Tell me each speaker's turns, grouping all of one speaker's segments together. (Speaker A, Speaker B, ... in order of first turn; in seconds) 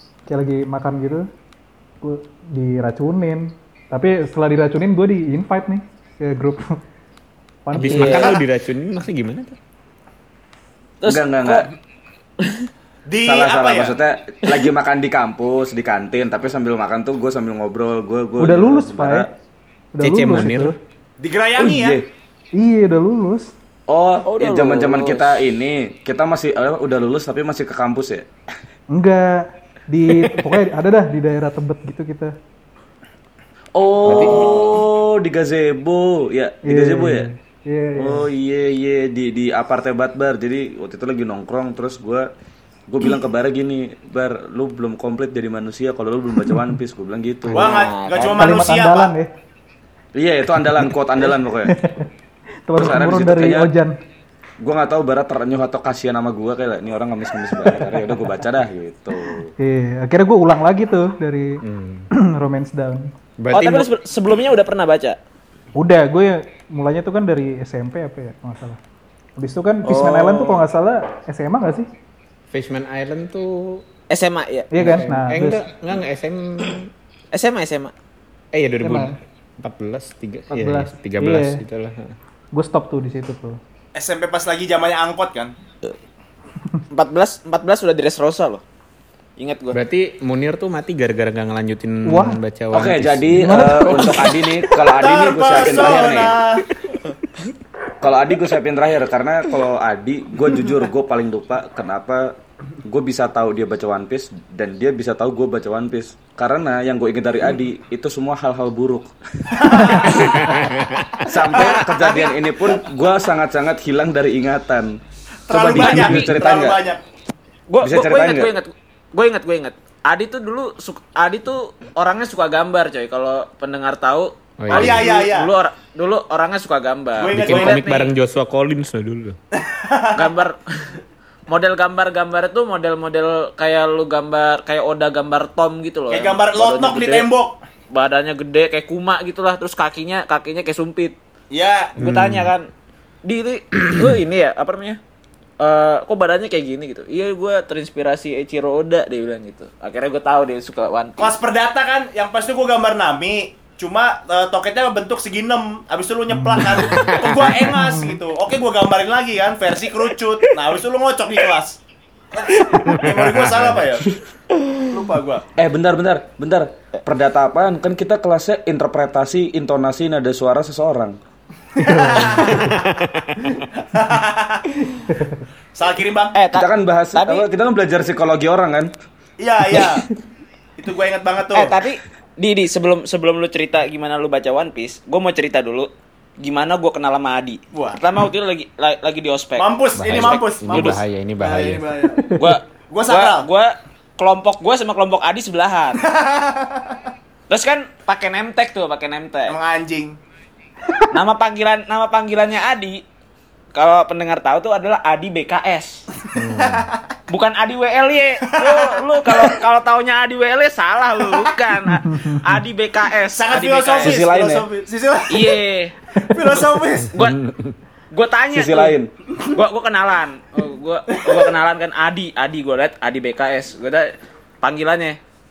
Speaker A: 0.3-1.3, 2.0-6.8, 7.7-8.3, 18.4-19.3, 19.9-20.8, 22.6-23.5, 28.9-32.3, 36.6-38.3, 48.4-49.3, 51.6-52.1, 52.7-54.0, 57.6-58.1, 59.6-63.1, 65.8-68.8, 69.4-71.9, 74.7-75.6, 78.8-79.2, 80.5-81.6, 82.5-83.6, 92.0-92.4, 93.3-94.4, 156.3-156.8, 157.7-158.2, 171.9-172.2, 175.1-175.4, 192.2-192.6, 212.0-212.4
Speaker B: 7.8-9.6, 20.0-20.7, 34.1-34.5, 47.5-47.8, 61.6-62.1, 63.4-63.9, 72.5-73.8, 74.8-76.9, 78.5-82.2, 89.7-93.5, 110.3-111.2, 124.6-125.1, 127.3-129.4, 142.0-142.5, 156.9-157.2, 162.8-164.1, 171.8-173.6, 190.0-192.0, 206.4-206.9, 217.2-217.8
Speaker C: 7.8-8.3, 11.0-11.7, 12.4-12.7, 24.2-25.3, 34.2-34.6, 47.5-48.5, 63.5-65.2, 69.8-70.6, 74.1-74.7, 77.3-77.9, 86.9-88.6, 89.4-89.8, 111.5-112.3, 115.6-116.3, 117.7-128.1, 130.1-131.0, 131.5-137.3, 137.9-141.2, 142.0-142.7, 143.2-145.0, 145.6-151.3, 176.3-177.5, 181.5-185.9, 186.4-191.0, 192.4-196.0, 197.5-199.6, 201.1-203.0, 203.8-206.0, 207.3-214.2, 215.3-216.0, 217.1-217.4, 218.1-225.2
Speaker D: 8.1-8.4, 13.1-14.0, 21.2-22.0, 47.5-49.1, 84.0-85.5, 94.8-96.6, 109.5-110.6, 111.4-112.2, 115.5-117.0, 124.7-125.5, 127.2-128.1, 129.6-130.3, 136.1-137.6, 141.5-141.9, 151.2-161.8, 162.3-164.2, 164.9-165.5, 171.8-172.9, 173.8-174.8, 175.8-176.4, 179.4-180.1, 180.8-181.8, 187.7-188.0, 189.6-192.2, 192.9-193.5, 196.0-197.0, 199.5-200.2, 206.6-207.0, 208.5-209.5, 213.3-215.6, 216.1-217.1
Speaker E: 11.1-11.7, 13.2-19.3, 21.6-22.1, 23.9-28.3, 33.8-37.3, 38.0-42.3, 42.9-47.9, 50.2-51.8, 52.8-53.7, 54.6-59.5, 92.7-96.4, 98.0-110.3, 111.2-116.8, 117.8-118.5, 165.6-171.2, 176.5-178.9, 214.0-214.6, 218.5-219.1